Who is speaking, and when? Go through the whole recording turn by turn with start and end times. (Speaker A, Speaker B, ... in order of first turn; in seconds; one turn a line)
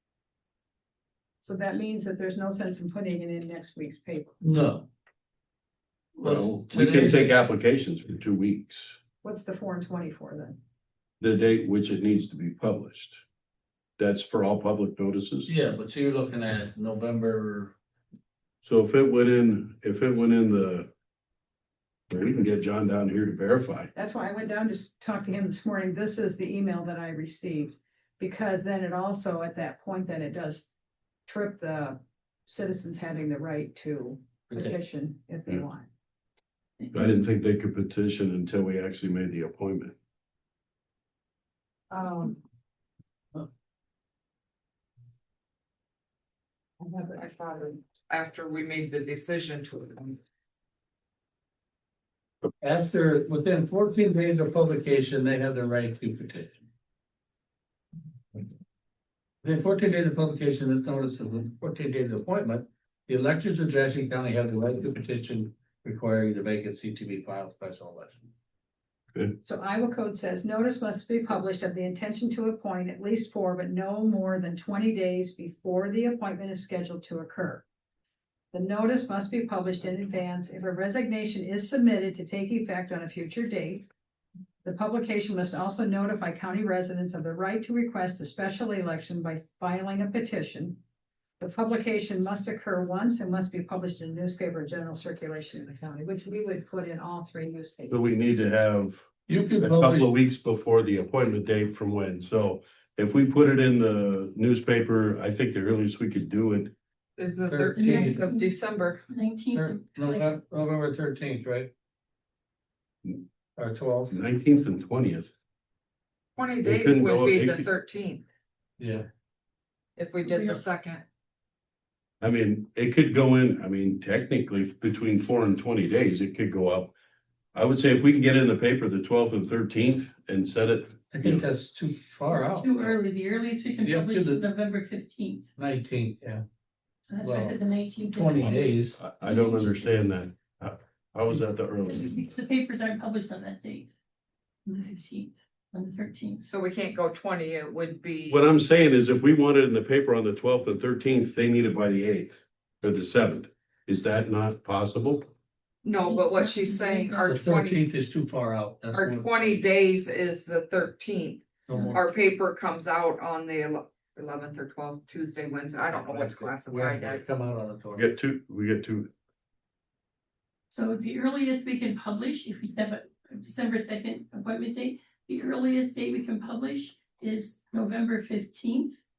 Speaker A: 1.4-4.3
Speaker B: 4.4-4.9
Speaker B: 6.2-7.3
Speaker C: 6.2-9.0
Speaker A: 9.2-10.6
Speaker C: 11.2-13.2
Speaker C: 14.0-15.5
Speaker B: 15.4-17.7
Speaker C: 18.6-20.9
Speaker C: 22.1-23.9
Speaker A: 23.9-30.7
Speaker A: 31.3-35.9
Speaker B: 34.5-34.8
Speaker C: 36.9-39.9
Speaker A: 41.9-42.4
Speaker A: 46.8-47.2
Speaker D: 47.1-50.2
Speaker B: 52.6-56.6
Speaker B: 59.4-68.3
Speaker A: 69.4-77.6
Speaker A: 78.5-83.9
Speaker A: 84.6-90.8
Speaker A: 91.4-98.1
Speaker C: 97.9-99.1
Speaker B: 99.3-100.0
Speaker C: 99.6-106.7
Speaker D: 107.2-109.0
Speaker B: 107.5-108.2
Speaker E: 107.7-108.5
Speaker E: 109.1-110.3
Speaker B: 109.5-111.7
Speaker B: 113.6-114.2
Speaker C: 114.1-115.3
Speaker D: 116.4-118.2
Speaker C: 116.6-117.7
Speaker B: 118.8-119.1
Speaker D: 120.0-121.0
Speaker E: 120.2-120.6
Speaker C: 122.2-126.9
Speaker C: 127.5-131.4
Speaker B: 131.1-132.9
Speaker E: 132.3-135.5
Speaker B: 133.8-134.4
Speaker B: 135.6-136.4
Speaker E: 137.1-139.9
Speaker B: 137.2-137.6
Speaker B: 138.1-139.0
Speaker C: 139.0-142.2
Speaker E: 141.9-143.9
Speaker E: 144.7-146.4
Speaker D: 146.4-148.4
Speaker C: 148.3-155.3
Speaker D: 155.8-157.9
Speaker E: 156.0-157.3
Speaker B: 157.3-159.6
Speaker D: 158.9-167.3
Speaker B: 161.7-162.0
Speaker E: 161.7-162.0
Speaker B: 165.9-168.1
Speaker C: 167.9-169.1
Speaker E: 170.7-179.0